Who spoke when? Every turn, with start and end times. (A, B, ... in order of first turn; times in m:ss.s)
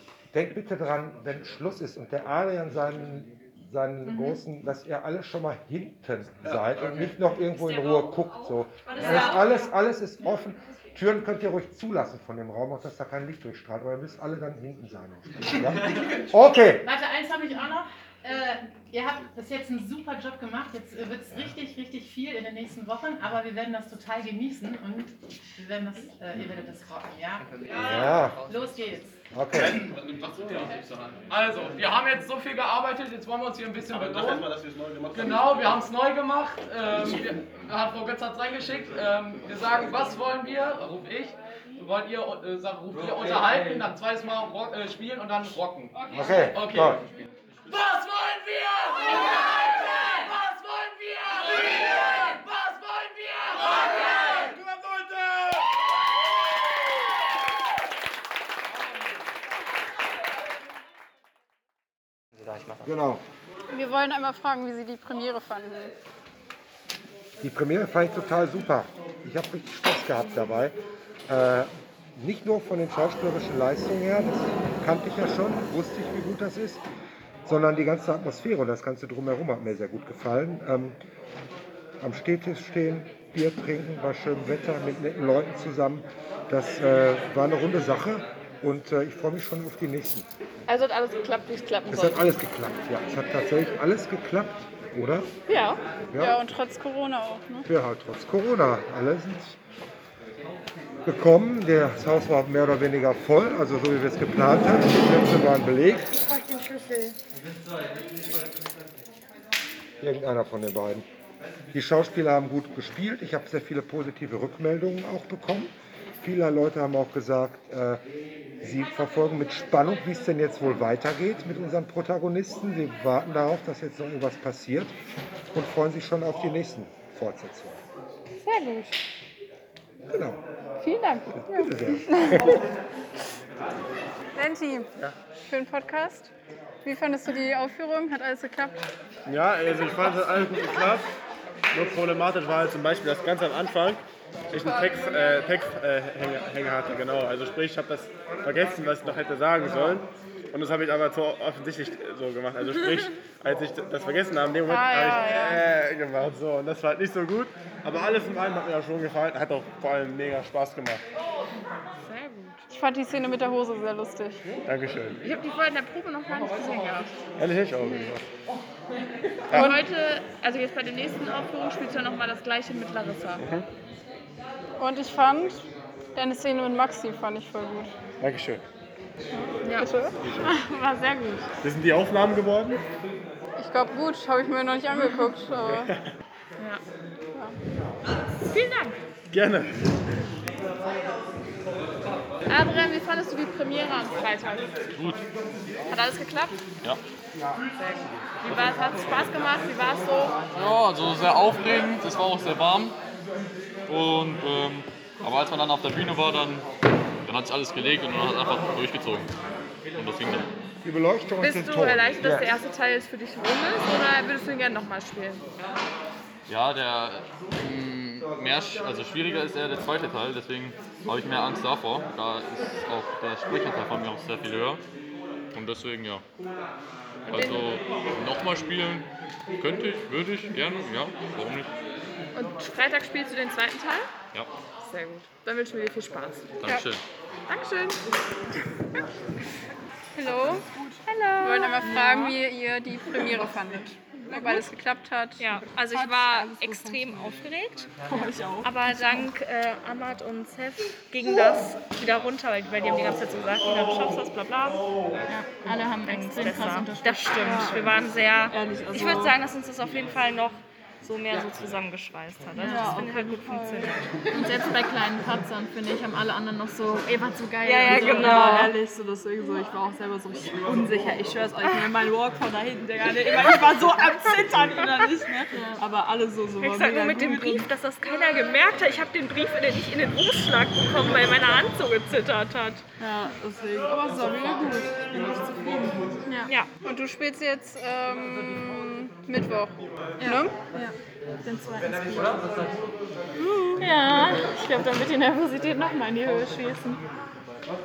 0:00.3-0:16.9 A
0:04.0-0:04.4 B
0:07.5-0:09.7 C
0:16.8-0:29.2 B
0:27.7-0:28.4 A
0:29.3-0:29.8 A
0:29.9-0:34.6 D
0:34.0-0:35.4 E
0:35.1-0:55.6 D
0:46.1-0:47.0 A
1:02.7-1:03.2 A
1:03.7-1:05.9 F
1:07.4-1:10.8 A
1:11.3-1:16.8 A
1:17.4-1:21.0 A
1:22.0-1:30.3 A
1:30.7-1:32.3 G
1:31.9-1:35.3 A
1:35.5-1:35.8 G
1:36.1-1:36.4 A
1:36.2-1:37.7 F
1:37.6-1:39.6 A
1:41.0-1:46.1 A
1:46.1-1:47.1 G
1:50.0-1:51.1 A
1:51.7-1:58.0 A
1:58.6-2:04.9 A
2:05.5-2:07.8 A
2:08.4-2:09.0 G
2:10.1-2:10.4 A
2:10.8-2:11.4 G
2:11.3-2:12.6 A
2:12.2-2:12.5 F
2:14.4-2:14.9 F
2:15.5-2:16.3 F
2:16.8-2:18.8 F
2:19.2-2:21.1 E
2:21.7-2:41.0 E
2:34.7-2:35.6 F
2:42.0-2:42.6 G
2:42.7-2:44.5 F
2:44.6-2:45.2 E
2:45.2-2:48.2 G
2:47.4-2:48.2 E
2:49.5-2:53.4 G
2:49.5-2:49.7 E
2:49.5-2:49.8 F
2:53.4-2:53.7 E
2:54.8-2:57.9 F
2:58.2-2:58.6 E
2:59.4-3:00.2 F
2:59.6-3:01.4 G
3:00.2-3:00.5 E
3:01.6-3:02.8 E
3:03.6-3:05.9 F
3:04.9-3:05.3 G
3:05.6-3:06.0 E
3:08.5-3:09.0 G
3:09.3-3:09.7 E
3:12.5-3:14.9 G
3:14.9-3:15.2 H
3:15.9-3:16.6 G
3:17.7-3:20.4 G
3:18.5-3:19.4 H
3:20.5-3:23.0 H
3:23.9-3:26.6 H
3:27.2-3:29.3 H
3:29.9-3:30.5 H
3:30.8-3:32.5 A
3:31.4-3:35.5 G
3:36.5-3:44.8 H
3:45.5-3:46.2 H
3:47.3-3:47.7 G
3:47.3-3:49.1 H
3:49.6-3:51.7 H
3:52.3-3:54.1 G
3:54.8-3:56.6 G
3:56.6-3:57.0 H
3:57.5-3:58.0 G
4:00.1-4:00.7 F
4:00.6-4:01.0 I
4:01.1-4:02.3 G
4:01.4-4:05.5 F
4:04.3-4:04.6 I
4:05.4-4:07.9 C
4:05.9-4:07.2 I
4:08.1-4:09.3 I
4:08.6-4:14.8 C
4:15.3-4:18.0 I
4:16.0-4:24.0 C
4:16.1-4:16.9 G
4:17.4-4:17.7 G
4:18.5-4:19.3 I
4:22.6-4:37.7 I
4:24.3-4:28.7 G
4:27.6-4:28.8 C
4:30.7-4:32.4 G
4:33.8-4:34.2 G
4:35.1-4:35.4 G
4:36.0-4:36.8 G
4:36.6-4:42.8 C
4:43.0-4:46.5 I
4:46.8-4:50.6 F
4:50.2-4:50.9 I
4:51.4-4:52.4 I
4:53.6-4:53.9 I
4:53.8-4:57.0 G
4:54.5-4:54.8 I